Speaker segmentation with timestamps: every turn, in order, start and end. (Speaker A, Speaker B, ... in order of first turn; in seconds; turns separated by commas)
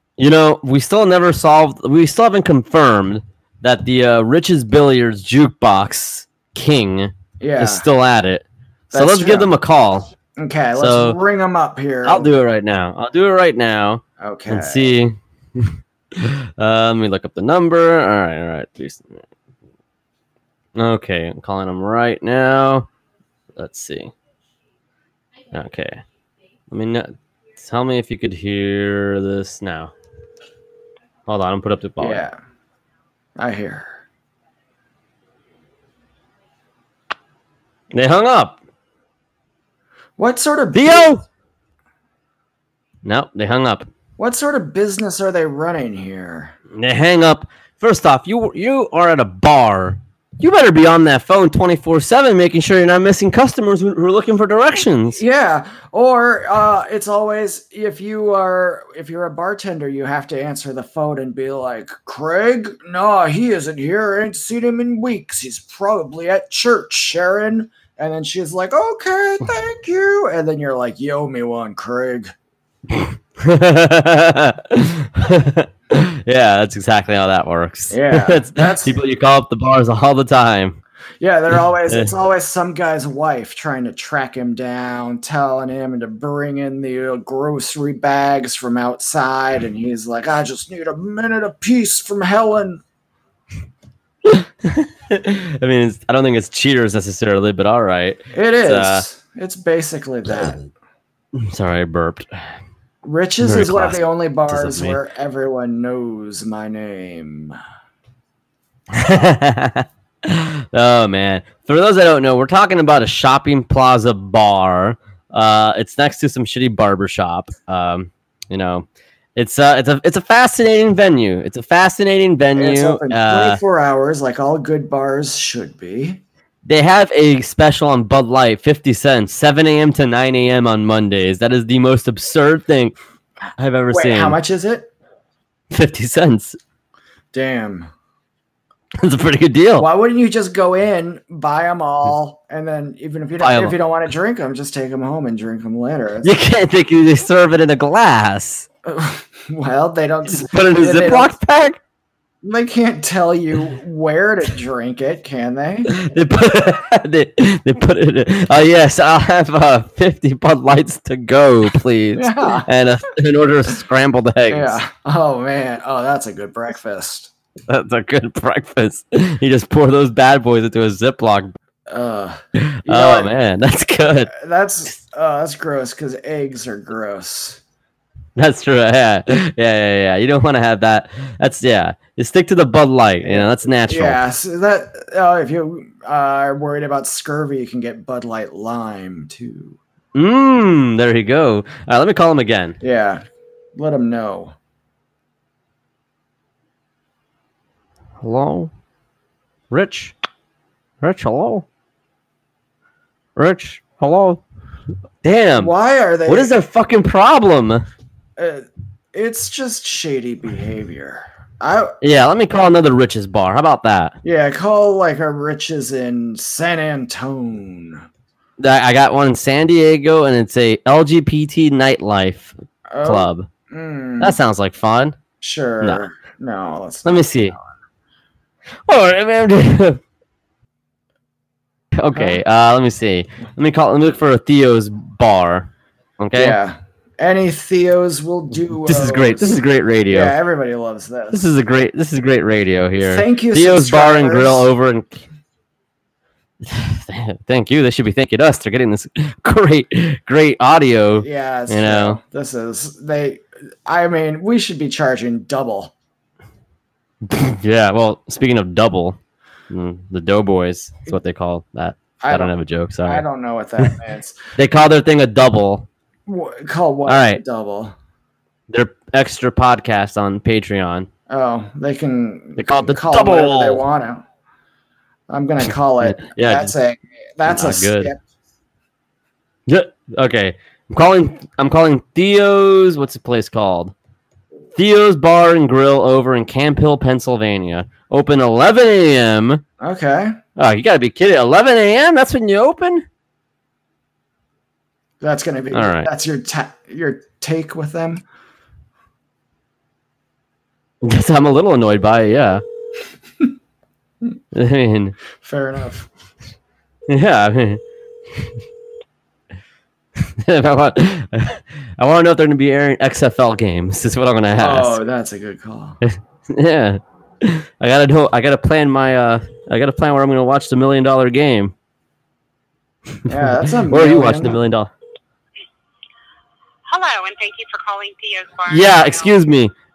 Speaker A: 0.2-10.1, Speaker B: 7.4-7.8, Speaker B: 8.9-9.5, Speaker B: 10.4-12.3, Speaker A: 10.8-11.2, Speaker A: 12.0-19.2, Speaker B: 14.2-14.9, Speaker A: 20.8-22.9, Speaker A: 23.6-24.1, Speaker A: 25.5-26.0, Speaker A: 26.7-29.9, Speaker A: 31.3-32.2, Speaker B: 32.0-32.4, Speaker B: 33.4-34.0, Speaker A: 37.9-38.6, Speaker B: 40.2-41.1, Speaker A: 40.7-41.2, Speaker A: 43.0-43.9, Speaker B: 44.2-46.5, Speaker A: 46.7-55.2, Speaker B: 55.1-72.3, Speaker A: 73.0-80.8, Speaker B: 77.9-79.0, Speaker B: 81.2-92.8, Speaker A: 94.2-99.0, Speaker B: 98.3-100.6, Speaker A: 101.3-102.3, Speaker B: 103.0-107.6, Speaker A: 103.4-105.0, Speaker A: 108.9-123.6, Speaker B: 122.5-126.2, Speaker A: 126.6-132.9, Speaker A: 133.6-134.4, Speaker B: 133.9-134.9, Speaker A: 135.7-136.6, Speaker B: 137.3-137.9, Speaker A: 139.0-139.9, Speaker B: 139.8-146.3, Speaker A: 143.4-143.8, Speaker A: 146.2-148.7, Speaker B: 148.8-151.3, Speaker A: 150.3-151.8, Speaker B: 152.4-156.0, Speaker A: 155.9-164.8, Speaker B: 162.1-162.7, Speaker B: 164.5-167.3, Speaker A: 167.7-171.5, Speaker B: 171.9-173.3, Speaker A: 172.6-174.3, Speaker B: 174.3-177.6, Speaker A: 178.3-184.2, Speaker B: 183.2-189.8, Speaker A: 190.1-192.8, Speaker B: 192.8-193.2, Speaker B: 193.7-194.5, Speaker A: 198.2-198.7, Speaker A: 199.7-200.1, Speaker A: 201.0-201.7, Speaker A: 203.3-204.4, Speaker A: 205.2-205.7, Speaker B: 205.6-206.6, Speaker A: 206.3-207.8, Speaker B: 208.4-211.9, Speaker A: 212.0-214.2, Speaker B: 214.2-218.1, Speaker A: 218.6-223.5, Speaker B: 222.9-224.4, Speaker A: 224.2-225.2, Speaker B: 225.4-227.7, Speaker A: 227.0-227.6, Speaker A: 228.8-230.0, Speaker A: 231.9-236.6, Speaker B: 232.1-232.4, Speaker B: 236.3-241.4, Speaker A: 238.8-240.3, Speaker A: 241.3-245.2, Speaker B: 243.0-244.7, Speaker A: 246.6-252.2, Speaker B: 251.2-255.9, Speaker A: 257.2-259.2, Speaker A: 259.7-263.2, Speaker B: 262.2-264.4, Speaker A: 264.6-265.9, Speaker B: 266.2-267.9, Speaker A: 267.1-267.4, Speaker A: 268.7-271.1, Speaker B: 271.3-274.2, Speaker A: 272.6-273.8, Speaker B: 275.3-278.2, Speaker A: 276.0-276.7, Speaker A: 277.4-278.1, Speaker A: 279.7-283.9, Speaker A: 284.8-289.6, Speaker B: 289.8-290.4, Speaker A: 290.6-293.0, Speaker B: 295.2-298.2, Speaker A: 295.7-296.1, Speaker A: 301.0-302.6, Speaker A: 304.5-305.2, Speaker B: 305.4-306.1, Speaker A: 307.1-307.8, Speaker A: 310.2-315.0, Speaker B: 314.6-316.0, Speaker A: 316.0-321.7, Speaker A: 323.2-324.9, Speaker B: 323.2-324.6, Speaker C: 326.9-329.3, Speaker A: 328.7-329.7